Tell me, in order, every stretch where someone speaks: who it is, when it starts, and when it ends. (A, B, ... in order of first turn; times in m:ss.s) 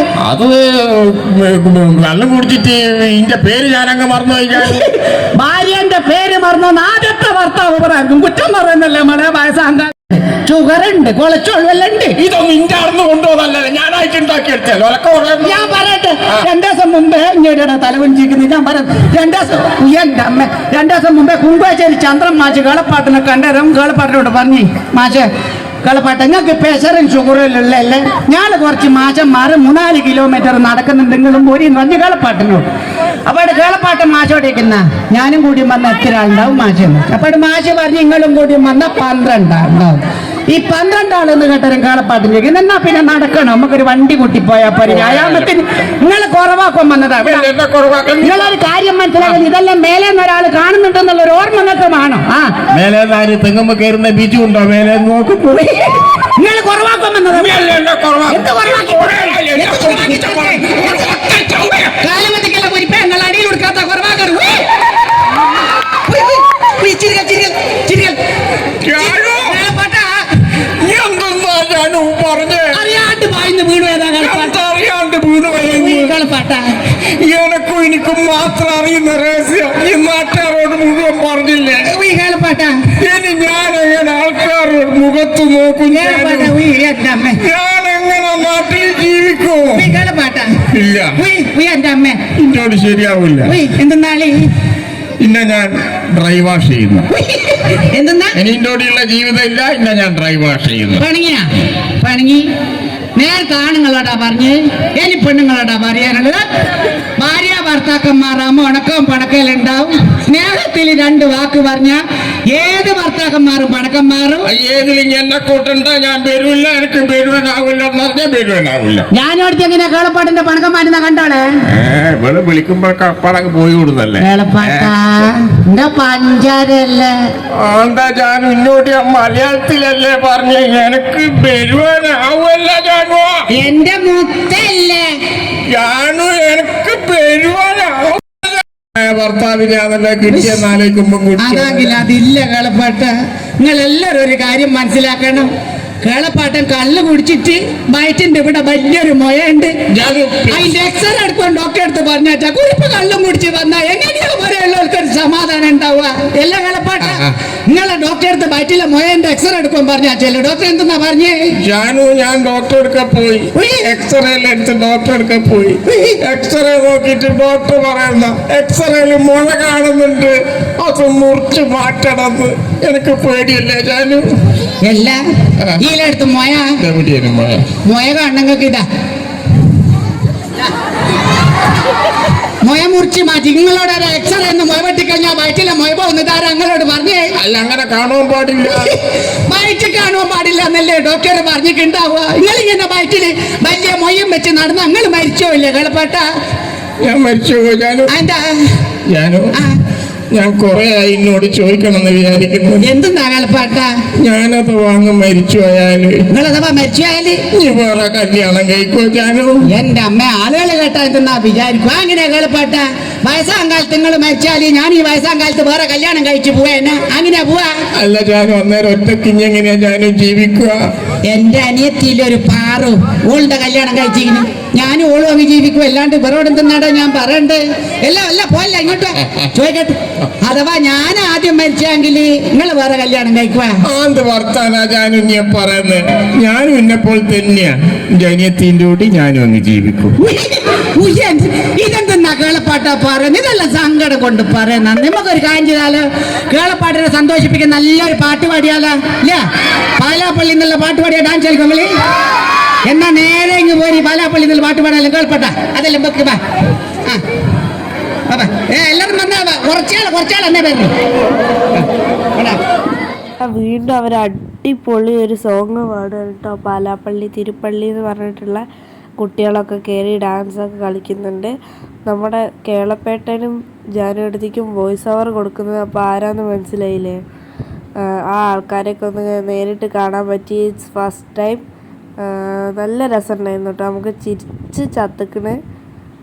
0:00.2-0:04.9 A
0:04.6-0:12.2 B
0:12.2-0:16.5 A
0:15.4-0:25.3 B
0:25.8-0:32.7 B
0:33.3-0:47.5 B
0:44.9-0:45.5 A
0:47.2-0:48.5 A
0:48.2-0:52.5 B
0:52.7-0:56.1 A
0:56.4-0:57.7 B
0:57.3-1:02.0 A
0:58.3-1:00.7 B
1:02.0-1:04.7 B
1:06.1-1:08.2 B
1:08.8-1:09.6 A
1:09.0-1:10.1 B
1:10.8-1:12.8 A
1:12.7-1:14.6 B
1:14.2-1:16.2 A
1:15.6-1:16.6 B
1:17.2-1:21.9 A
1:21.8-1:22.8 B
1:23.0-1:26.6 A
1:25.9-1:27.4 B
1:27.4-1:29.9 A
1:29.7-1:30.5 B
1:30.7-1:31.2 A
1:31.2-1:32.3 B
1:32.3-1:33.6 A
1:33.4-1:34.4 B
1:35.2-1:37.1 A
1:37.3-1:38.4 B
1:38.4-1:41.0 A
1:41.0-1:42.5 B
1:43.2-1:46.4 B
1:47.2-1:54.5 B
1:54.5-1:59.1 A
1:59.1-2:01.5 B
2:01.7-2:04.9 A
2:04.2-2:07.2 B
2:07.6-2:13.5 A
2:13.5-2:15.0 B
2:15.7-2:22.0 A
2:20.3-2:20.6 B
2:21.4-2:25.5 B
2:26.0-2:29.8 B
2:29.9-2:30.7 A
2:30.5-2:41.4 B
2:37.0-2:37.3 A
2:41.6-2:54.3 A
2:43.6-2:43.9 B
2:54.8-2:55.2 B
2:55.8-2:56.7 B
2:56.8-2:57.7 A
2:57.9-2:58.8 B
3:02.6-3:07.3 B
3:07.4-3:08.9 A
3:08.8-3:16.2 B
3:17.0-3:18.1 A
3:18.1-3:18.7 B
3:19.1-3:19.5 A
3:20.3-3:22.9 A
3:22.8-3:23.9 B
3:24.2-3:26.2 A
3:26.3-3:27.4 B
3:27.5-3:29.7 A
3:29.7-3:37.8 B
3:38.0-3:40.9 A
3:41.3-3:53.8 B
3:53.9-4:00.2 A
4:00.2-4:09.4 B
4:10.0-4:11.9 B
4:12.8-4:16.4 B
4:18.3-4:20.9 B
4:21.8-4:22.6 B
4:23.4-4:28.6 C
4:29.2-4:37.2 C
4:38.0-4:41.6 C
4:42.2-4:45.6 C